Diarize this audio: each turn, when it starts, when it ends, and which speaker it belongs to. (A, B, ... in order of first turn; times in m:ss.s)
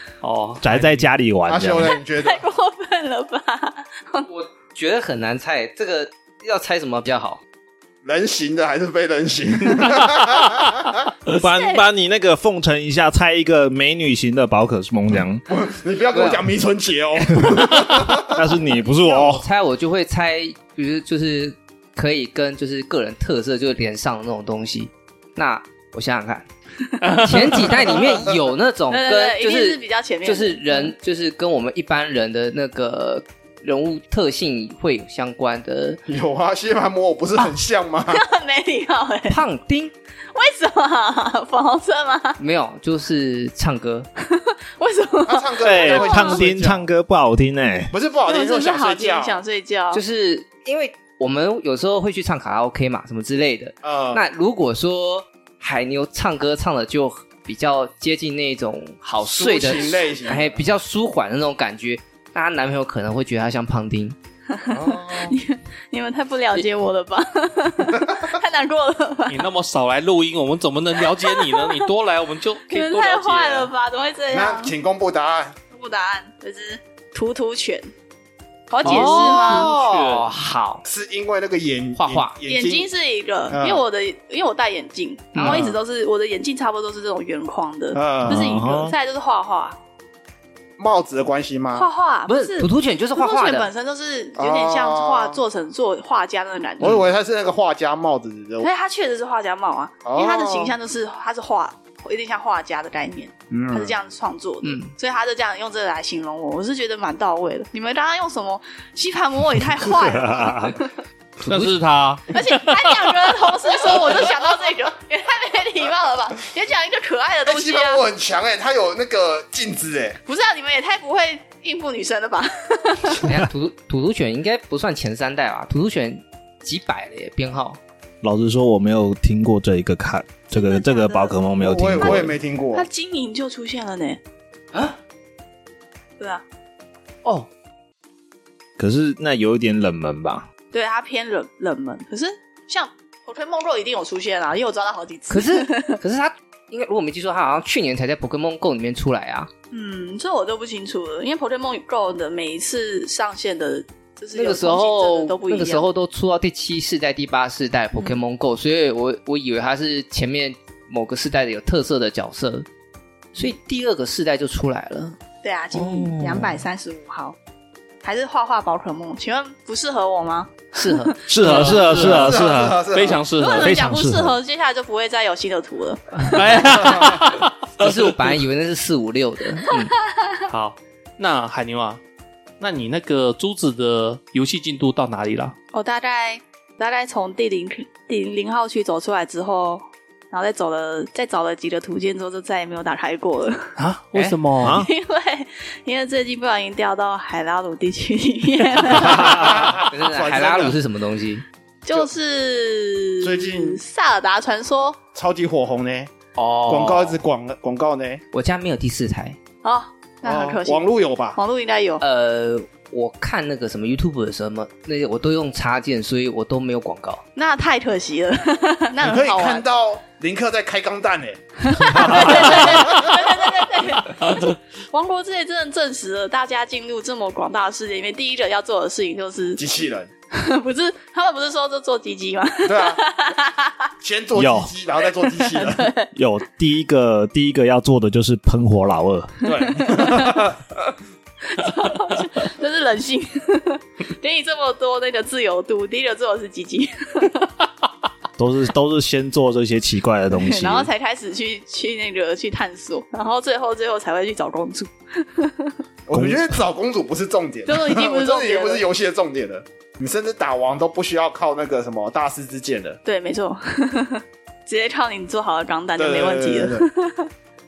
0:00.2-0:01.1 A
0:00.6-0:01.9 B
0:01.4-0:02.4 C
0:01.9-0:04.3 D
0:04.3-0:07.4 E
0:08.0-0:11.0 C
0:11.3-0:15.4 B
0:11.4-0:11.8 D
0:15.5-0:18.4 C
0:16.1-0:16.4 E
0:17.4-0:19.4 B
0:19.2-0:26.5 E
0:27.0-0:28.1 A
0:27.2-0:36.0 E
0:28.9-0:30.9 D
0:36.1-0:38.2 C
0:38.1-0:39.4 D
0:39.3-0:39.9 E
0:40.3-0:42.4 D
0:42.4-0:44.1 E
0:44.2-0:46.4 D
0:45.2-0:46.8 C
0:45.6-0:47.9 B
0:47.9-0:49.4 C
0:48.2-0:50.0 D
0:49.9-1:04.2 E
0:53.8-0:54.2 C
0:59.2-1:00.6 C
1:04.5-1:09.5 D
1:04.7-1:05.4 C
1:08.0-1:08.3 C
1:09.3-1:13.7 A
1:11.0-1:11.8 D
1:12.7-1:14.7 D
1:14.3-1:15.5 C
1:15.7-1:17.9 D
1:18.7-1:19.7 D
1:18.8-1:20.8 E
1:18.9-1:20.3 A
1:20.8-1:22.9 C
1:22.0-1:22.4 E
1:22.4-1:29.8 D
1:23.5-1:23.8 C
1:25.3-1:25.8 E
1:27.9-1:28.5 C
1:28.2-1:28.9 B
1:30.8-1:31.9 C
1:31.7-1:37.0 D
1:32.3-1:33.7 E
1:34.4-1:35.4 C
1:36.8-1:38.7 C
1:38.6-1:50.9 D
1:40.0-1:40.7 C
1:43.5-1:43.9 C
1:44.6-1:44.9 E
1:50.0-1:50.7 B
1:51.4-1:51.7 E
1:51.4-1:52.9 A
1:52.3-1:58.0 D
1:57.4-2:00.2 C
2:00.2-2:03.3 D
2:03.2-2:07.8 E
2:08.2-2:12.3 B
2:10.5-2:11.4 D
2:11.6-2:12.8 C
2:12.0-2:14.2 D
2:16.2-2:16.4 D
2:18.8-2:20.4 B
2:20.7-2:26.0 D
2:25.3-2:29.5 E
2:29.7-2:35.9 D
2:34.3-2:42.6 E
2:43.3-2:45.2 E
2:45.4-2:47.4 D
2:45.7-2:46.5 E
2:48.0-2:51.2 D
2:50.7-2:51.2 E
2:51.3-2:52.8 B
2:51.4-2:53.7 A
2:51.7-2:53.2 C
2:53.4-2:57.1 D
2:53.4-2:54.4 B
2:56.2-2:58.3 A
2:57.8-2:59.9 E
2:59.6-3:00.4 D
3:00.5-3:02.0 A
3:02.6-3:05.5 A
3:05.7-3:13.8 D
3:13.8-3:14.8 A
3:14.6-3:14.9 B
3:14.7-3:19.7 D
3:18.9-3:20.8 C
3:19.9-3:21.4 E
3:21.8-3:25.0 D
3:23.2-3:23.8 C
3:25.1-3:28.2 C
3:26.3-3:27.2 E
3:28.3-3:29.4 E
3:29.6-3:32.0 D
3:30.2-3:31.4 C
3:32.0-3:37.2 E
3:37.4-3:39.6 D
3:39.0-3:43.5 C
3:41.6-3:49.6 D
3:49.6-3:50.1 C
3:50.3-3:53.9 D
3:52.6-3:53.0 C
3:54.0-3:55.9 C
3:54.3-3:54.7 B
3:55.0-3:56.1 D
3:56.1-3:59.4 B
3:59.4-4:00.6 C
3:59.4-4:00.4 D
4:01.4-4:07.5 D
4:08.4-4:10.9 B
4:10.3-4:15.8 D
4:16.1-4:23.0 C
4:16.1-4:16.6 B
4:17.7-4:18.8 D
4:23.0-4:27.3 D
4:26.0-4:26.9 C